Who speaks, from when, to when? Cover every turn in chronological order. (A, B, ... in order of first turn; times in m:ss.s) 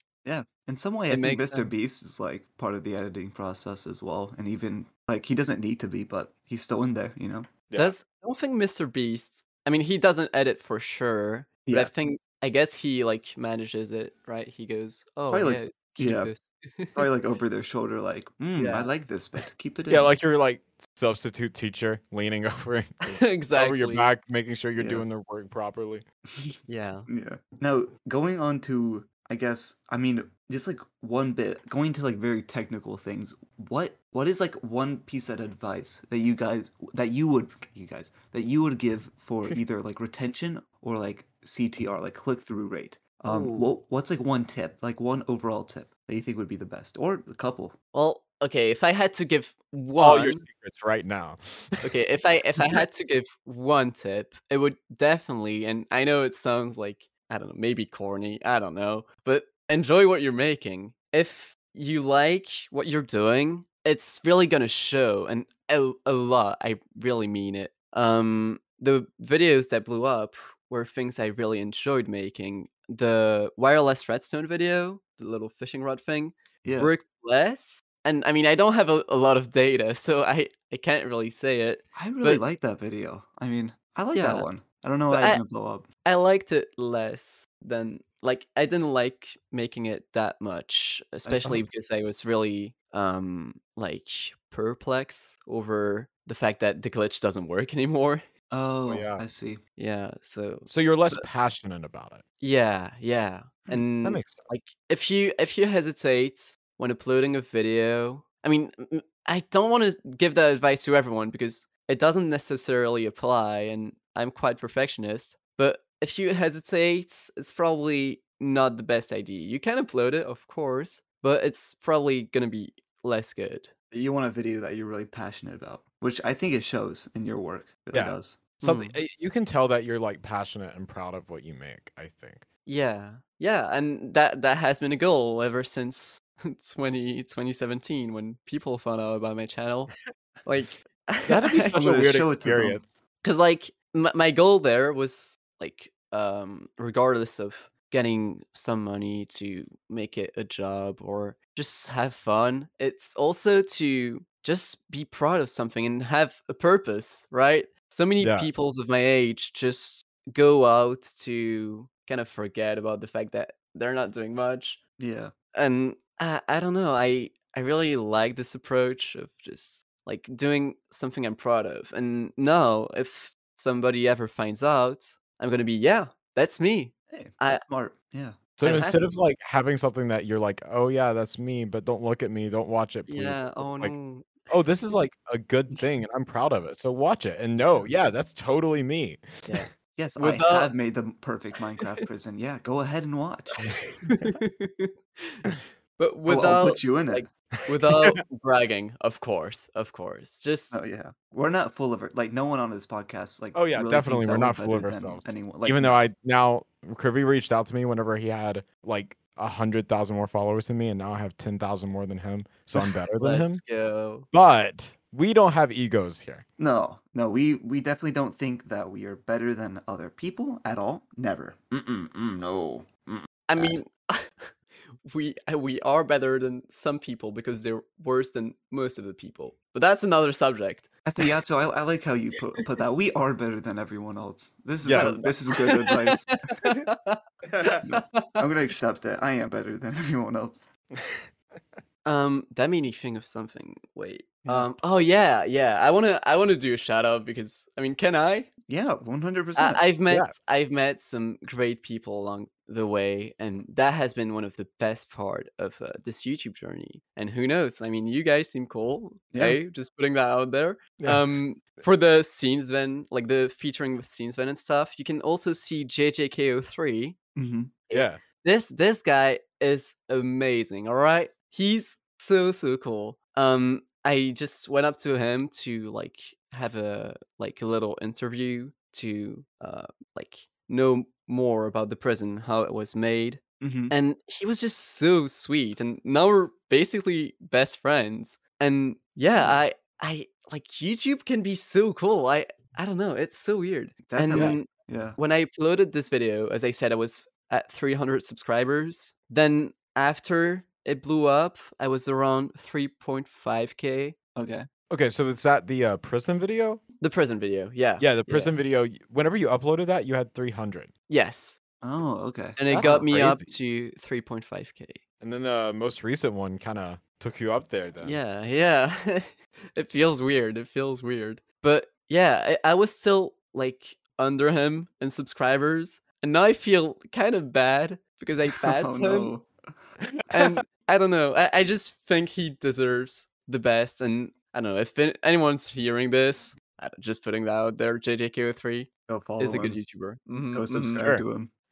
0:00.2-0:07.5 A
0:01.1-0:01.7 B
0:07.7-0:07.9 C
0:07.7-0:17.1 B
0:11.6-0:11.9 A
0:15.3-0:16.3 A
0:16.9-0:20.1 A
0:18.6-0:18.9 B
0:19.9-0:26.0 C
0:23.1-0:24.1 B
0:24.8-0:25.0 A
0:26.3-0:26.6 A
0:26.7-0:27.1 B
0:27.1-0:47.7 A
0:43.3-0:43.6 C
0:43.3-0:43.6 B
0:47.9-0:50.4 B
0:50.0-0:51.8 C
0:51.8-1:22.4 B
1:16.6-1:16.9 A
1:21.9-1:25.9 A
1:24.1-1:24.5 B
1:25.1-1:25.4 B
1:26.0-1:38.2 B
1:31.2-1:31.6 A
1:38.5-1:39.6 A
1:38.9-1:39.2 C
1:39.8-1:41.2 B
1:40.6-1:42.2 C
1:42.4-2:03.7 B
1:44.0-1:44.4 C
2:03.9-2:08.5 A
2:07.9-2:12.4 C
2:08.6-2:09.0 B
2:12.6-2:19.9 B
2:20.4-2:21.8 B
2:21.2-2:23.0 C
2:21.7-2:22.8 A
2:23.2-2:44.8 B
2:38.2-2:38.5 C
2:45.0-2:45.3 A
2:45.5-2:57.6 B
2:57.1-2:58.5 A
2:58.6-3:03.9 C
2:58.6-2:59.1 B
3:03.1-3:04.5 B
3:04.5-3:09.6 C
3:09.5-3:10.7 B
3:09.9-3:13.6 A
3:13.6-3:14.3 C
3:14.0-3:20.8 B
3:16.2-3:17.2 A
3:20.7-3:26.0 A
3:23.5-3:33.6 C
3:33.2-3:34.3 B
3:34.3-3:36.4 C
3:36.6-3:43.8 A
3:43.5-3:50.9 B
3:51.0-3:56.3 A
3:54.8-3:55.2 C
3:54.9-3:58.4 B
3:57.5-3:57.8 C
3:57.8-4:00.7 A
4:01.0-4:01.6 C
4:02.0-4:08.5 B
4:04.4-4:04.7 A
4:08.7-4:09.8 A
4:09.6-4:27.2 B
4:19.3-4:19.6 A
4:21.0-4:21.3 C
4:27.4-4:27.7 A
4:27.9-5:04.1 B
4:27.9-4:28.2 C
4:43.6-4:43.9 A
4:54.0-4:55.2 A
4:54.3-4:54.6 C
5:04.3-5:04.7 A
5:04.9-5:06.8 C
5:07.0-5:08.5 B
5:08.0-5:10.9 C
5:11.1-5:11.6 B
5:11.8-5:13.1 A
5:12.6-5:15.0 B
5:12.7-5:13.5 C
5:15.2-5:18.2 C
5:18.0-5:29.3 B
5:28.7-5:29.8 A
5:30.2-5:30.6 C
5:30.3-5:38.9 B
5:39.1-5:39.8 A
5:39.4-5:41.1 B
5:40.5-5:41.5 A